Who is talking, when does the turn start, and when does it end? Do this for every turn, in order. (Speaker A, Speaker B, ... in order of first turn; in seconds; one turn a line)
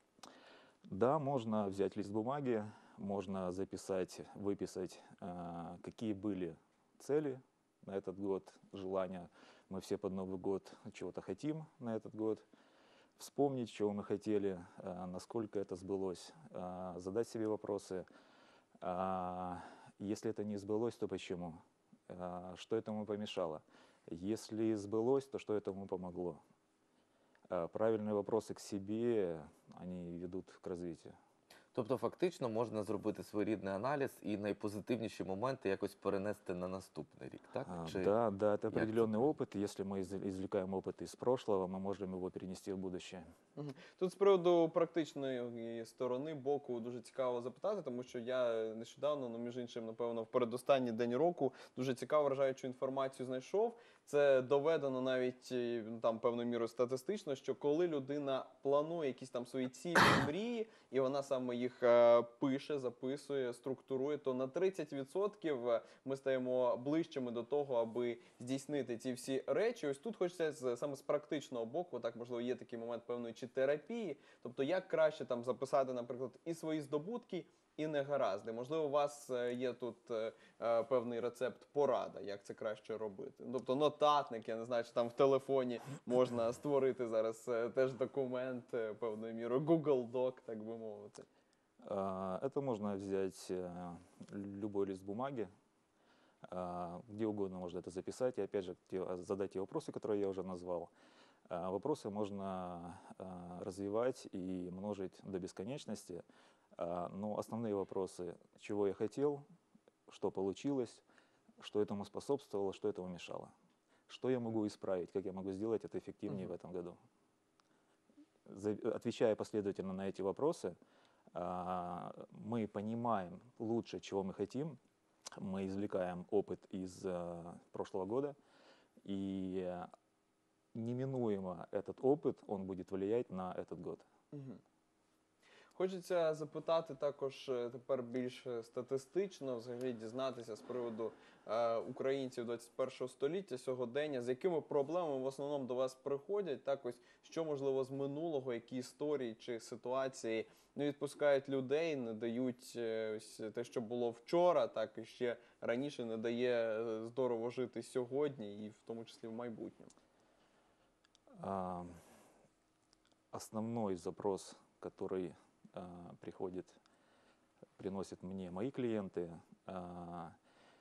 Speaker A: 0.9-12.4
Speaker A: 13.2-18.1
Speaker A: 18.8-26.4
Speaker A: 27.5-31.1
Speaker B: 31.7-38.1
Speaker A: 37.6-43.3
Speaker B: 38.7-39.3
Speaker C: 43.5-91.3
Speaker A: 91.8-95.5
Speaker A: 96.5-100.9
Speaker A: 101.5-106.2
Speaker A: 106.8-109.4
Speaker A: 110.1-111.0
Speaker A: 111.6-113.5
Speaker A: 114.1-117.0
Speaker A: 118.5-120.8
Speaker A: 121.3-124.8
Speaker A: 125.4-128.4
Speaker A: 129.0-129.9
Speaker A: 130.7-134.1
Speaker C: 134.3-134.6
Speaker C: 135.7-159.9
Speaker A: 161.4-162.0
Speaker A: 163.3-166.8
Speaker A: 167.8-170.3